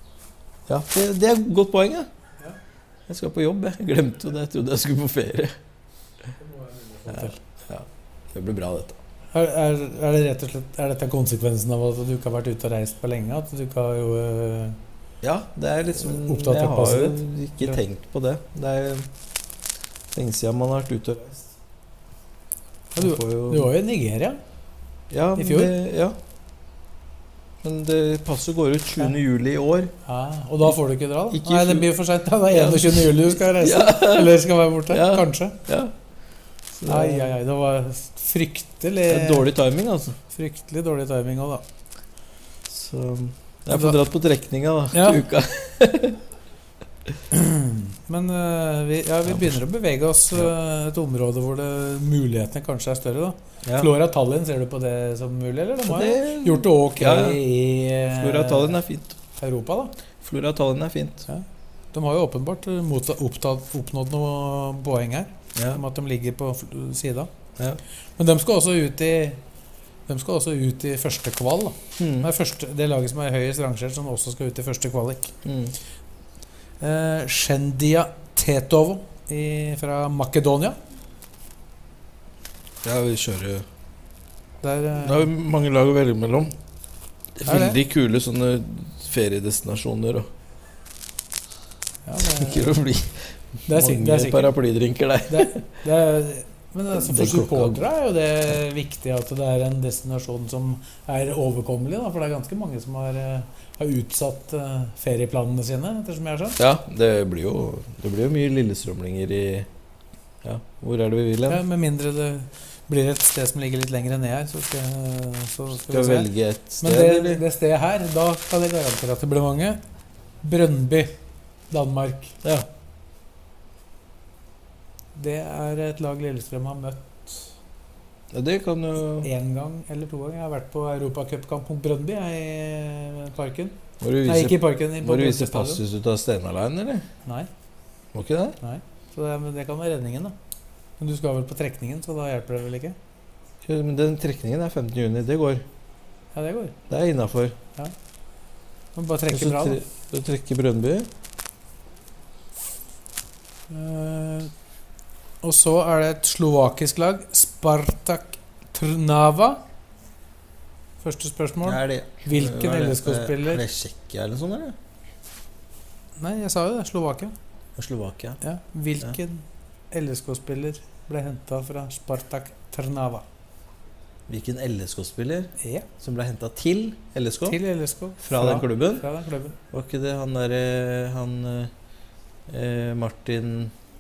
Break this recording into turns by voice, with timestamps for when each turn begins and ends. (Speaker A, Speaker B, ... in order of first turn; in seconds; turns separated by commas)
Speaker A: 0.7-2.1, Speaker A: 3.1-5.5, Speaker B: 6.4-7.4, Speaker A: 7.1-9.0, Speaker B: 9.3-14.8, Speaker A: 15.2-19.1, Speaker B: 16.0-17.8, Speaker A: 20.1-21.6, Speaker B: 22.9-24.4, Speaker A: 22.9-23.7, Speaker A: 25.1-26.1, Speaker B: 25.4-25.7, Speaker A: 27.6-29.9, Speaker B: 30.0-35.6, Speaker A: 31.3-31.9, Speaker A: 32.5-35.9, Speaker A: 36.7-37.3, Speaker B: 36.9-39.5, Speaker A: 39.1-40.2, Speaker B: 40.3-41.6, Speaker A: 42.7-46.2, Speaker B: 43.7-44.0, Speaker B: 44.9-45.2, Speaker B: 47.3-58.8, Speaker A: 49.3-49.6, Speaker A: 53.6-53.9, Speaker A: 55.8-57.4, Speaker A: 58.1-59.2, Speaker B: 59.4-59.9, Speaker A: 60.2-61.3, Speaker B: 61.3-67.3, Speaker A: 65.5-65.8, Speaker B: 68.2-69.4, Speaker B: 70.1-75.3, Speaker A: 72.0-72.3, Speaker A: 75.4-75.7, Speaker B: 76.8-80.8, Speaker A: 82.8-83.7, Speaker B: 84.6-85.3, Speaker A: 85.0-86.5, Speaker A: 87.3-90.3, Speaker B: 87.4-87.8, Speaker B: 92.0-92.7, Speaker A: 92.2-95.7, Speaker B: 93.7-94.5, Speaker B: 95.3-106.6, Speaker A: 96.9-97.8, Speaker A: 106.6-109.7, Speaker A: 110.4-111.6, Speaker B: 111.5-116.3, Speaker A: 115.8-117.4, Speaker B: 116.8-119.8, Speaker B: 120.4-121.1, Speaker B: 121.7-122.3, Speaker B: 125.1-127.5, Speaker A: 128.3-129.3, Speaker B: 129.2-135.8, Speaker A: 134.0-137.1, Speaker A: 138.1-138.6, Speaker B: 138.6-140.3, Speaker B: 141.0-142.9, Speaker A: 143.6-145.6, Speaker B: 146.3-146.8, Speaker A: 146.9-147.6, Speaker B: 148.9-149.8, Speaker A: 149.3-151.1, Speaker B: 153.7-154.5, Speaker B: 155.4-159.6, Speaker B: 161.0-163.6, Speaker A: 161.6-164.8, Speaker B: 166.2-167.3, Speaker A: 167.8-168.4, Speaker B: 168.4-173.2, Speaker A: 174.3-177.6, Speaker B: 175.6-175.9, Speaker B: 177.5-179.6, Speaker A: 178.2-179.1, Speaker A: 179.7-181.7, Speaker A: 182.5-183.7